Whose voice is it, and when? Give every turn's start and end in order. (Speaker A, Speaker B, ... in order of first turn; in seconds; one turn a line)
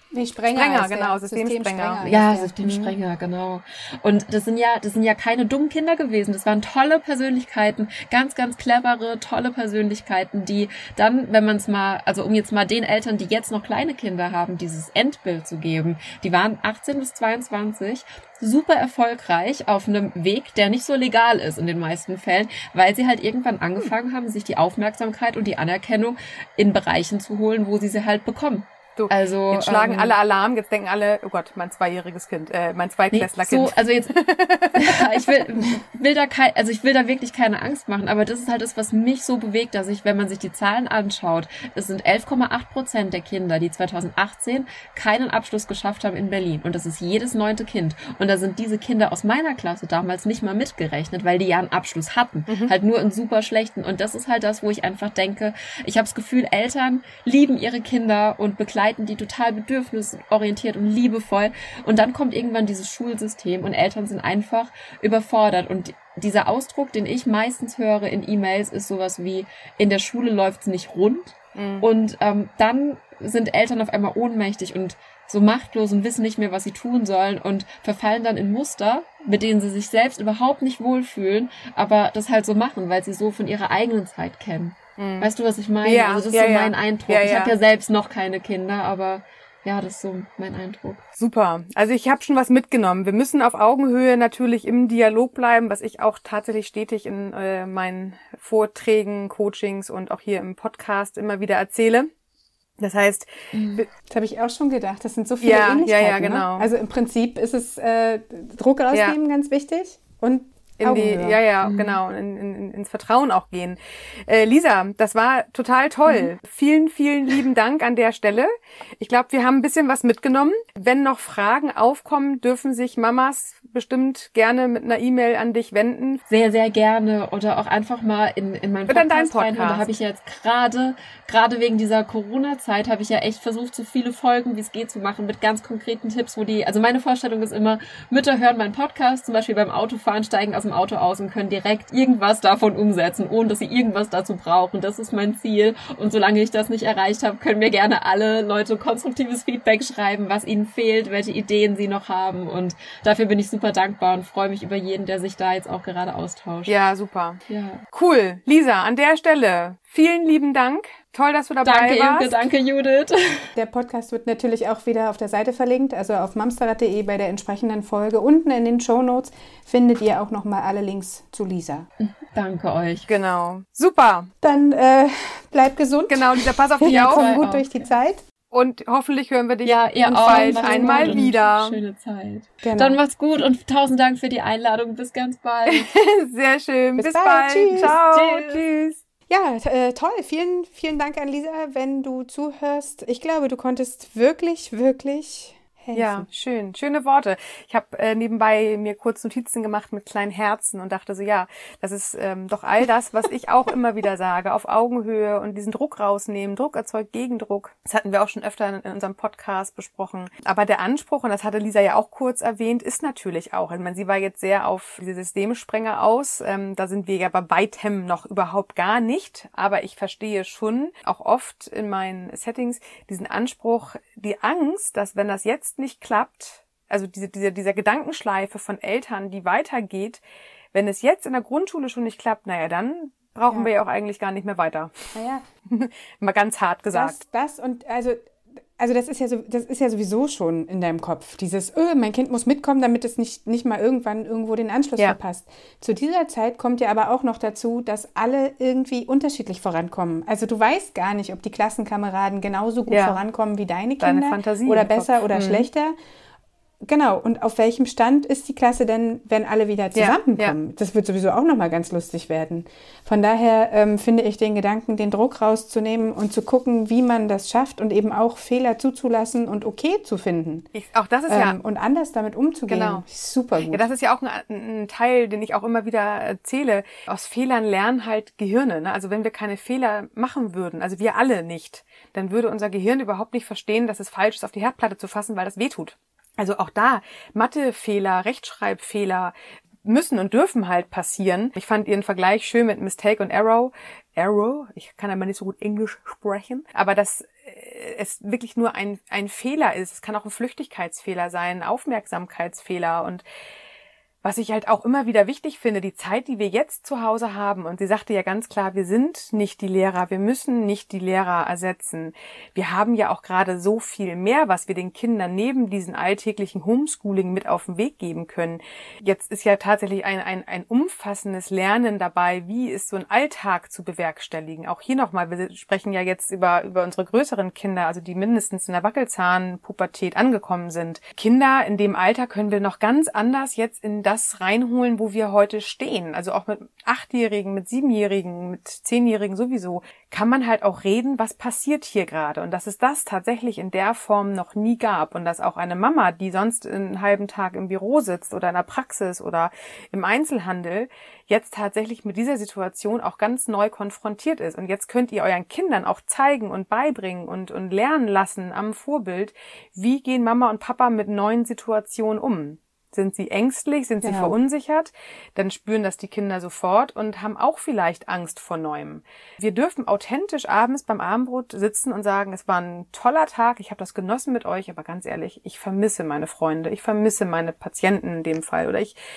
Speaker A: 0.1-3.0
Speaker B: 0.5-2.1
Speaker C: 2.1-30.1
Speaker B: 29.0-35.6
Speaker C: 33.1-34.2
Speaker C: 34.7-91.0
Speaker B: 52.5-52.8
Speaker B: 71.5-71.9
Speaker B: 85.0-85.3
Speaker B: 85.8-87.5
Speaker B: 91.2-102.1
Speaker B: 102.8-103.9
Speaker C: 103.5-103.8
Speaker A: 104.1-111.4
Speaker B: 105.4-106.7
Speaker B: 110.8-126.2
Speaker C: 111.6-112.0
Speaker C: 126.3-156.7
Speaker B: 128.9-129.9
Speaker B: 156.7-162.5
Speaker C: 157.5-157.8
Speaker C: 161.6-163.5
Speaker A: 163.6-171.9
Speaker C: 172.0-173.1
Speaker B: 173.1-174.3
Speaker A: 174.4-178.2
Speaker B: 176.1-177.4
Speaker C: 176.8-177.9
Speaker B: 178.5-181.8
Speaker C: 179.6-185.9
Speaker A: 180.1-181.3
Speaker A: 182.6-183.0
Speaker B: 185.7-189.0
Speaker A: 187.0-188.0
Speaker C: 187.8-188.6
Speaker A: 189.3-196.3
Speaker B: 195.9-230.2
Speaker B: 230.7-234.9
Speaker A: 235.1-235.4
Speaker B: 235.7-237.2
Speaker A: 236.9-255.9
Speaker B: 252.9-253.2
Speaker B: 254.0-255.7
Speaker A: 256.8-270.7
Speaker B: 259.9-260.6
Speaker B: 270.7-271.6
Speaker A: 271.3-273.9
Speaker B: 272.7-273.0
Speaker B: 273.6-303.2
Speaker B: 304.2-379.0
Speaker A: 364.0-364.4